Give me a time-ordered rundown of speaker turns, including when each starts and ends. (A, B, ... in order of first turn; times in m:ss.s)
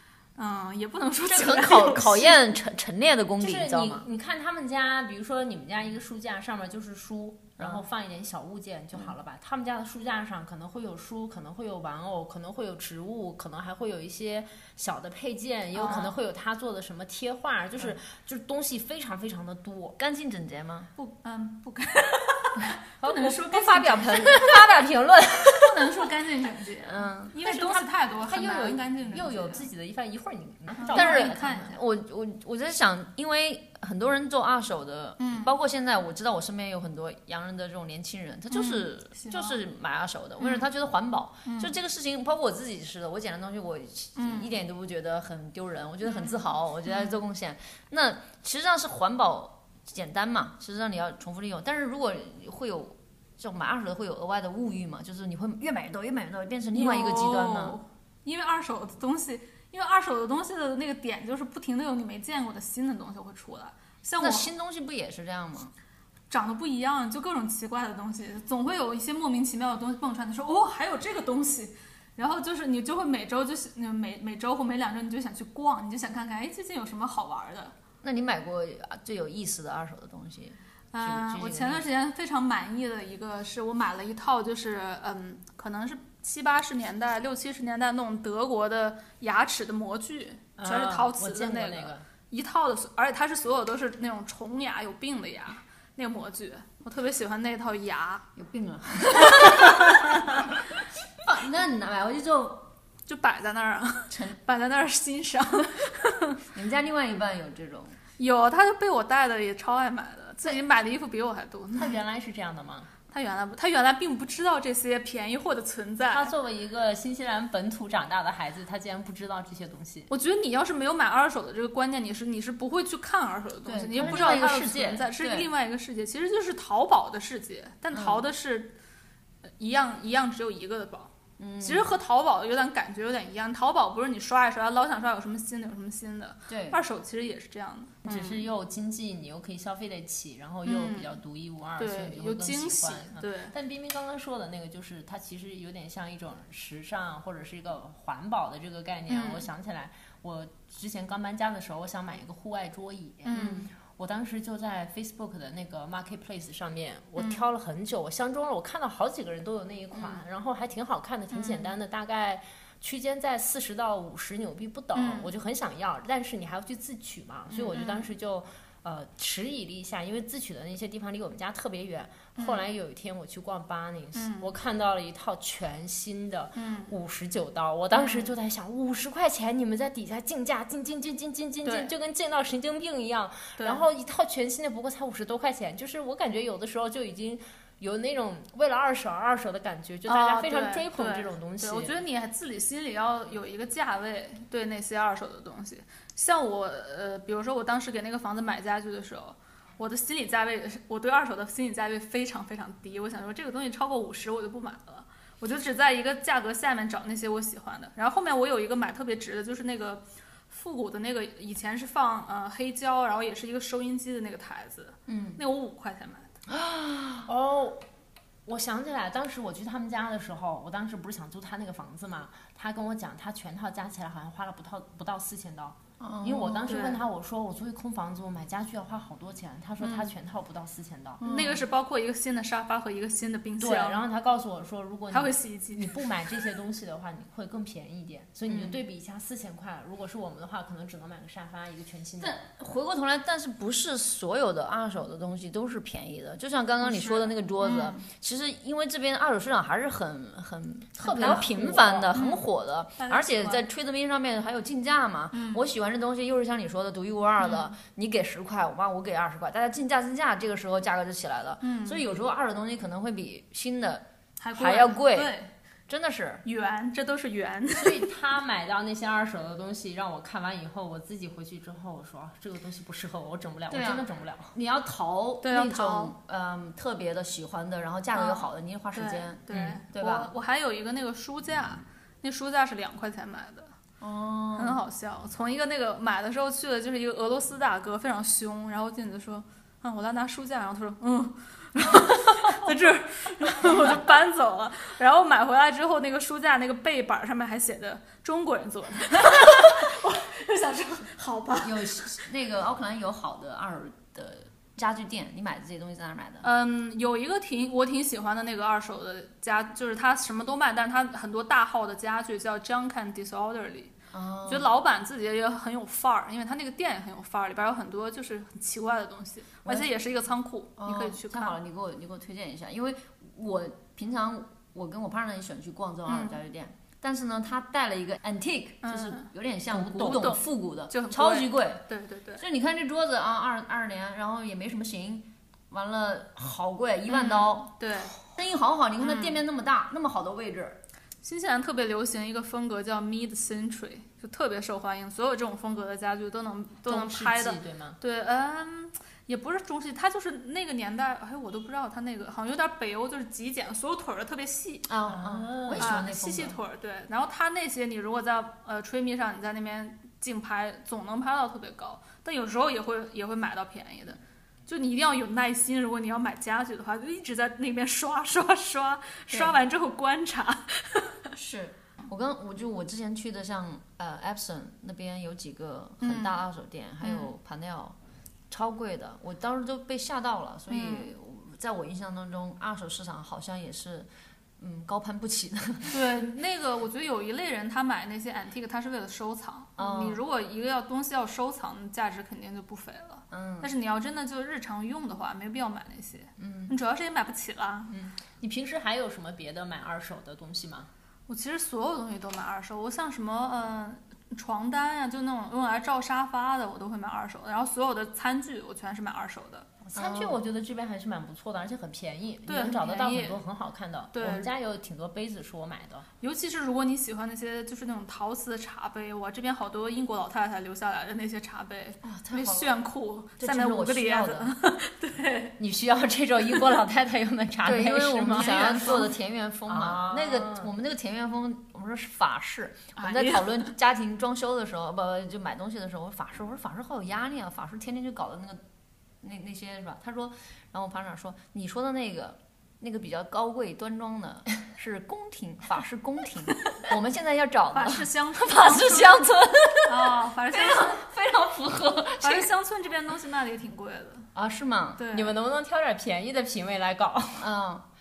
0:00.4-0:02.4 A
0:01.3-0:04.0 B
0:03.4-0:20.0 C
0:15.8-0:16.1 A
0:15.8-0:16.1 B
0:20.0-0:20.9 B
0:21.0-0:24.6 A
0:23.0-0:23.3 C
0:23.3-0:25.9 B
0:25.4-0:29.6 A
0:26.8-0:27.4 B
0:27.4-0:31.7 C
0:30.8-0:31.8 A
0:30.9-0:57.8 B
0:35.2-0:35.5 A
0:38.5-0:39.6 A
0:40.4-0:40.7 A
0:41.4-0:41.7 A
0:44.2-0:44.5 A
0:46.0-0:47.2 A
0:56.7-1:04.5 A
1:04.2-1:05.7 B
1:06.3-1:17.7 A
1:18.0-1:21.9 B
1:20.9-1:38.3 A
1:30.6-1:32.0 C
1:38.4-1:40.6 B
1:39.2-1:40.3 A
1:41.2-1:42.7 B
1:43.1-1:46.4 A
1:44.1-1:44.4 B
1:46.5-1:48.0 B
1:48.2-1:52.0 A
1:51.8-1:52.9 C
1:53.1-1:56.3 A
1:56.1-2:00.1 C
2:00.1-2:08.8 A
2:03.7-2:05.5 B
2:04.0-2:05.0 C
2:07.9-2:08.3 B
2:09.6-2:18.4 A
2:11.4-2:11.9 B
2:16.5-2:16.8 B
2:18.0-3:12.0 C
2:20.6-2:21.2 A
2:21.8-2:23.5 A
2:29.1-2:29.5 A
2:33.2-2:33.6 A
2:33.3-2:33.7 B
2:37.2-2:37.4 A
2:40.0-2:40.2 B
2:41.3-2:41.7 A
2:44.9-2:45.3 A
2:47.5-2:48.1 A
2:52.4-2:52.6 A
2:54.1-2:54.5 A
2:56.6-2:56.9 A
2:57.9-2:58.3 A
3:01.6-3:01.9 A
3:03.6-3:03.8 A
3:10.1-3:36.3 A
3:35.1-3:35.4 B
3:36.5-3:37.3 B
3:37.3-3:37.8 C
3:38.5-3:51.2 C
3:46.0-3:46.7 B
3:46.7-3:47.0 A
3:49.8-3:50.1 A
3:51.2-3:51.7 B
3:51.2-3:54.0 A
3:53.6-4:02.4 C
3:55.1-3:56.0 A
3:58.5-3:58.8 B
4:02.2-4:25.3 B
4:06.8-4:08.1 A
4:11.0-4:12.1 C
4:11.2-4:11.5 A
4:12.1-4:12.4 A
4:13.0-4:13.6 A
4:15.3-4:15.6 A
4:17.4-4:17.8 A
4:21.6-4:22.0 A
4:24.4-4:25.5 A
4:25.9-4:26.4 B
4:26.4-4:28.1 A
4:27.8-4:34.5 C
4:33.7-4:34.0 A
4:34.5-4:40.3 B
4:35.4-4:36.1 A
4:38.1-4:43.7 A
4:44.0-4:44.8 B
4:44.6-5:02.0 A
4:53.6-4:54.0 B
5:01.6-5:06.5 B
5:06.4-5:13.9 A
5:14.1-5:14.7 B
5:14.5-5:21.6 A
5:20.8-5:31.8 B
5:26.1-5:26.4 A
5:28.8-5:32.4 A
5:32.4-5:40.8 B
5:37.1-5:38.2 A
5:39.0-5:39.4 A
5:41.2-5:54.9 A
5:46.9-5:48.0 C
5:54.9-5:56.6 B
5:55.1-5:56.0 C
5:55.8-6:11.3 A
6:09.3-6:09.6 B
6:11.4-6:18.0 B
6:16.0-6:16.4 A
6:17.0-6:17.3 A
6:18.5-6:26.0 B
6:20.7-6:21.1 A
6:25.9-6:37.9 A
6:29.8-6:30.2 B
6:33.3-6:33.7 B
6:36.4-6:36.8 B
6:38.1-6:40.9 C
6:41.3-6:49.7 A
6:49.9-6:56.1 C
6:49.9-6:50.4 B
6:52.5-6:53.4 A
6:54.1-6:54.5 A
6:56.2-7:05.6 A
7:02.0-7:02.7 B
7:03.4-7:04.6 B
7:05.6-7:09.1 C
7:07.6-7:18.6 B
7:08.3-7:09.1 A
7:09.7-7:10.7 C
7:13.0-7:13.7 A
7:19.2-7:32.5 B
7:27.7-7:29.2 A
7:29.9-7:31.0 A
7:32.2-7:34.3 A
7:34.4-7:35.1 B
7:35.0-7:35.3 A
7:35.1-7:37.5 C
7:37.4-7:37.9 B